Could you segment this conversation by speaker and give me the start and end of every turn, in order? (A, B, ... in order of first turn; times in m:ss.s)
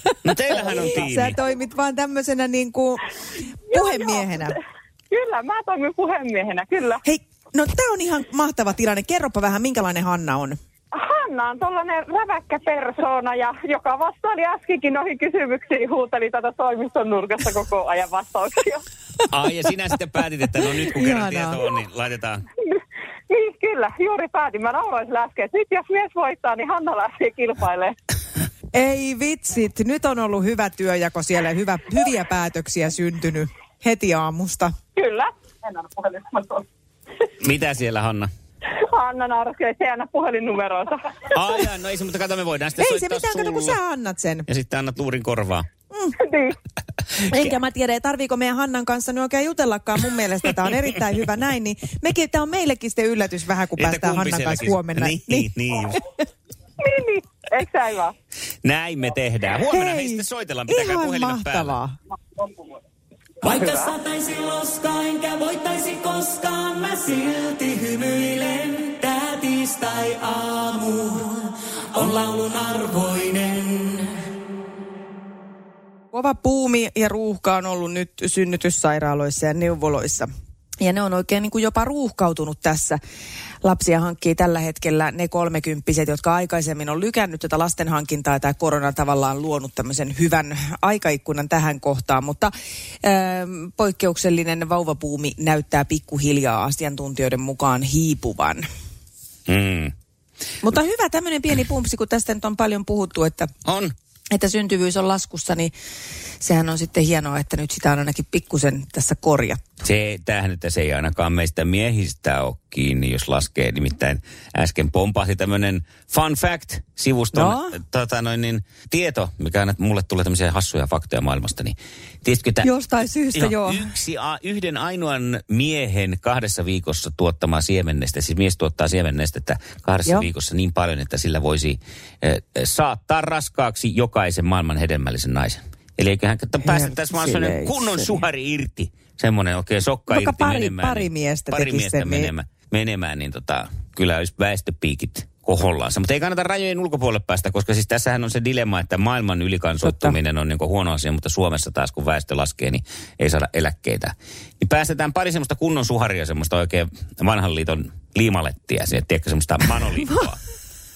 0:00.2-0:01.4 A
0:00.5-0:03.1 B
0:03.7-0:04.6 B
0:03.7-0:04.6 C
0:05.1-0:07.0 C
0:07.0-0:10.6 B
0:10.9-0:18.8 C
0:19.3-0:22.4 A
0:20.6-0:21.6 B
0:22.6-0:27.9 C
0:28.7-0:34.7 B
0:35.0-0:36.6 C
0:37.4-0:38.3 A
0:38.7-0:41.0 C
0:41.3-0:43.8 A
0:42.8-0:44.5 B
0:44.5-0:45.7 A
0:46.2-0:46.6 C
0:47.2-0:55.5 B
0:53.8-0:56.0 A
0:56.8-0:58.1 C
0:58.6-1:01.8 A
0:59.7-1:02.0 B
1:03.4-1:14.1 D
1:16.1-1:23.0 B
1:23.6-1:38.6 B
1:39.5-1:39.9 A
1:40.6-1:43.5 B
1:43.6-1:43.9 A
1:44.3-1:45.7 B
1:46.4-1:49.6 B
1:49.8-2:02.7 A
1:57.3-1:57.8 B
2:02.6-2:03.9 B
2:03.3-2:40.4 A
2:16.6-2:18.2 B
2:20.1-2:22.3 B
2:29.8-2:30.2 B